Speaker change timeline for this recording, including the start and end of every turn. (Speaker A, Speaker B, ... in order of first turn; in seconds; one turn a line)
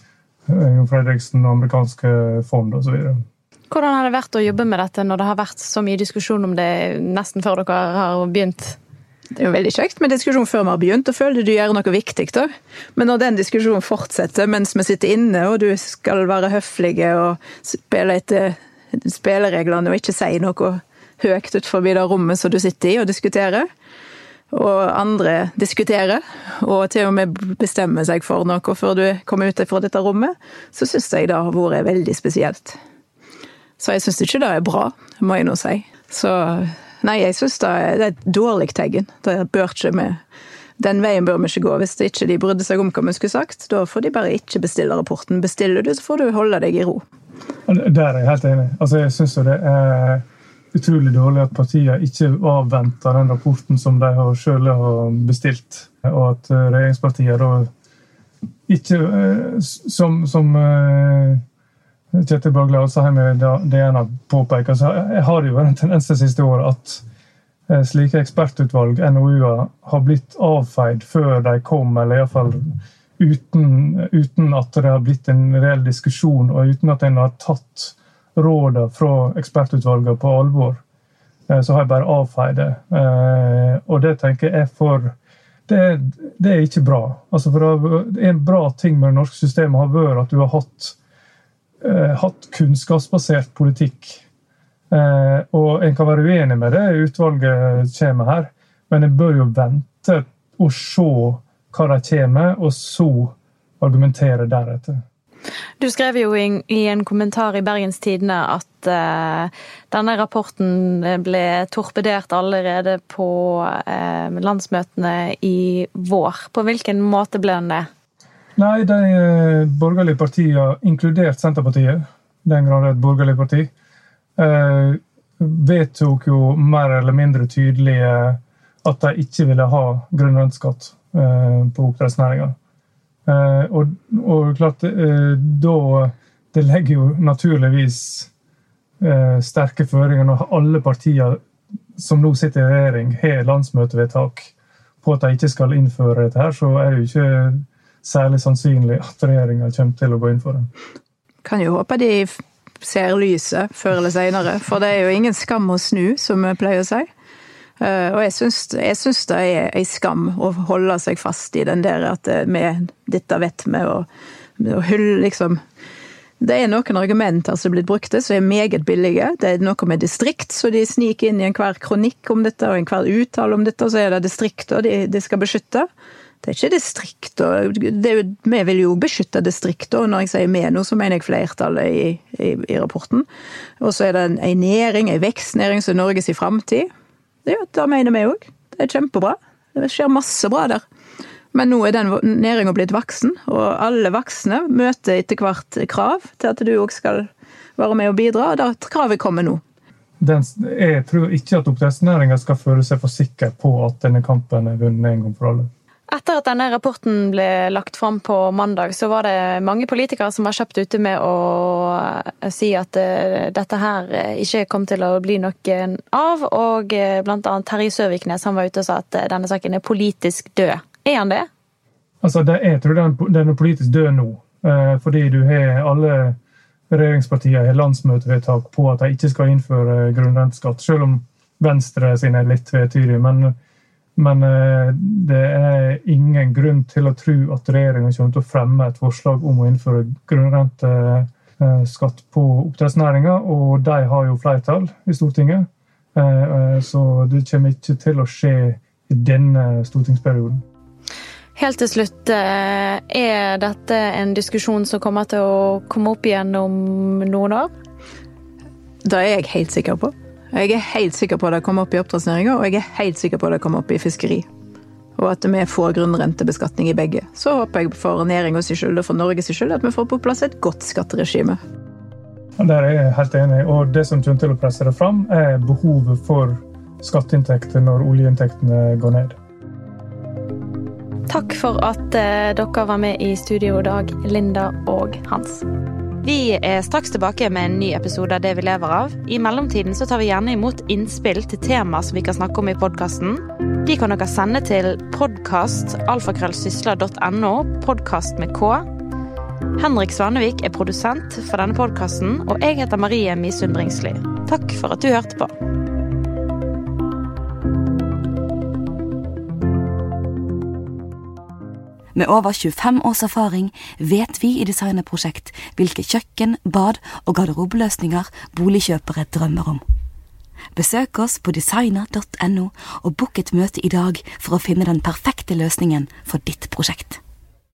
Speaker A: 0.5-3.2
Speaker B: 3.7-8.8
Speaker C: 9.4-23.7
Speaker C: 24.5-32.8
Speaker C: 33.8-40.2
Speaker C: 40.8-47.0
Speaker A: 47.7-57.7
Speaker A: 58.7-61.4
Speaker A: 62.1-67.0
Speaker A: 67.7-80.8
Speaker A: 81.5-85.1
Speaker A: 85.7-91.0
Speaker A: 91.8-94.2
Speaker A: 94.9-105.0
Speaker B: 105.8-117.9
Speaker A: 118.5-123.7
Speaker A: 124.4-132.6
Speaker A: 133.2-138.3
Speaker A: 139.0-141.4
Speaker A: 142.0-144.5
Speaker A: 145.0-150.7
Speaker C: 151.4-157.1
Speaker C: 157.8-164.1
Speaker C: 164.6-165.6
Speaker C: 166.4-175.9
Speaker C: 176.4-183.2
Speaker C: 183.8-186.9
Speaker C: 187.4-190.8
Speaker C: 191.5-199.6
Speaker A: 200.2-205.7
Speaker B: 206.1-221.5
Speaker A: 222.2-226.4
Speaker A: 226.9-233.5
Speaker A: 234.2-250.6
Speaker B: 251.6-257.7
Speaker C: 259.0-264.5
Speaker C: 265.2-271.6
Speaker A: 272.6-279.4
Speaker B: 281.3-285.6
Speaker B: 286.2-298.8
Speaker B: 299.8-305.5
Speaker D: 312.1-319.8
Speaker D: 320.7-327.2